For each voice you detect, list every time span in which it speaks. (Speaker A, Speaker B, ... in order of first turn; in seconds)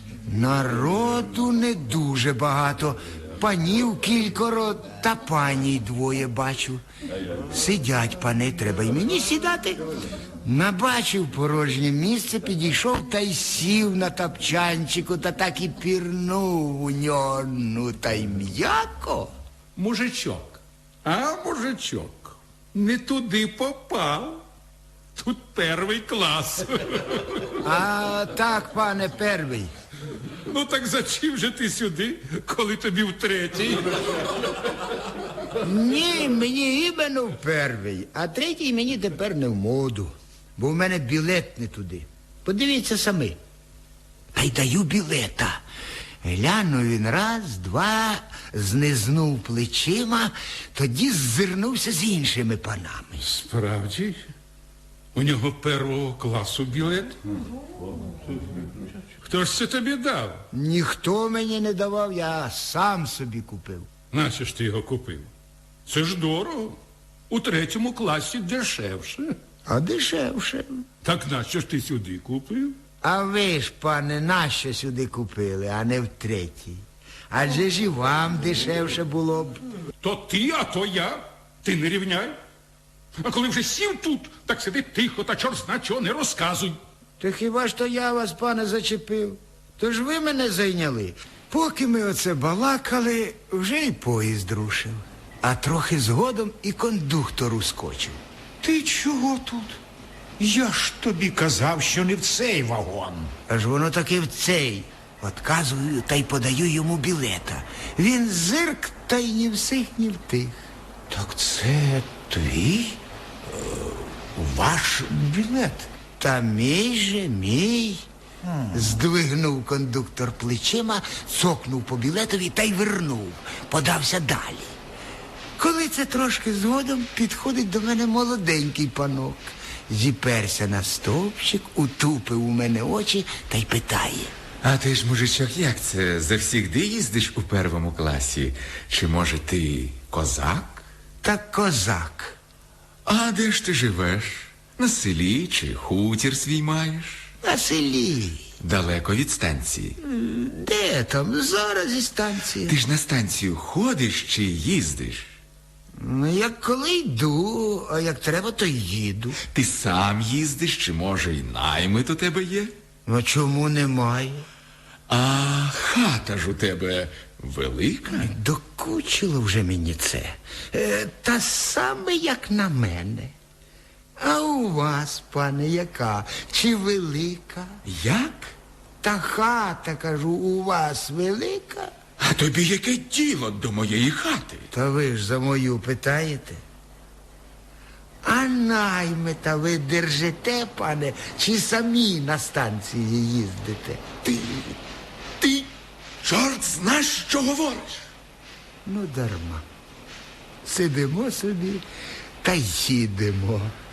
Speaker A: 0.3-6.8, 7.5-9.8, 10.4-19.3, 27.6-29.7, 35.6-43.4, 44.3-45.6, 46.2-53.2, 60.5-63.9, 69.7-70.8, 73.0-79.6, 87.2-98.2, 103.5-110.6, 116.2-118.0, 118.7-124.8, 125.6-134.3, 141.2-142.4, 147.4-148.5, 150.0-152.8, 156.0-159.4, 163.1-164.4, 168.2-173.3, 174.2-177.8, 179.0-181.9, 184.7-186.6, 188.2-194.8, 198.8-199.7, 200.6-201.8, 202.4-203.7
Speaker B: 19.8-24.4, 25.2-27.5, 30.5-34.3, 53.2-54.3, 55.1-57.2, 59.2-60.4, 64.1-65.3, 65.9-66.8, 67.3-69.3, 71.0-72.8, 80.0-82.4, 83.2-86.8
Speaker C: 98.6-99.8, 100.4-103.3, 111.1-113.0, 113.5-115.8
Speaker D: 134.6-140.8, 143.1-147.3, 148.6-150.0, 152.7-155.3, 159.5-162.7, 165.1-168.3, 177.8-178.5, 182.2-184.7, 196.2-198.1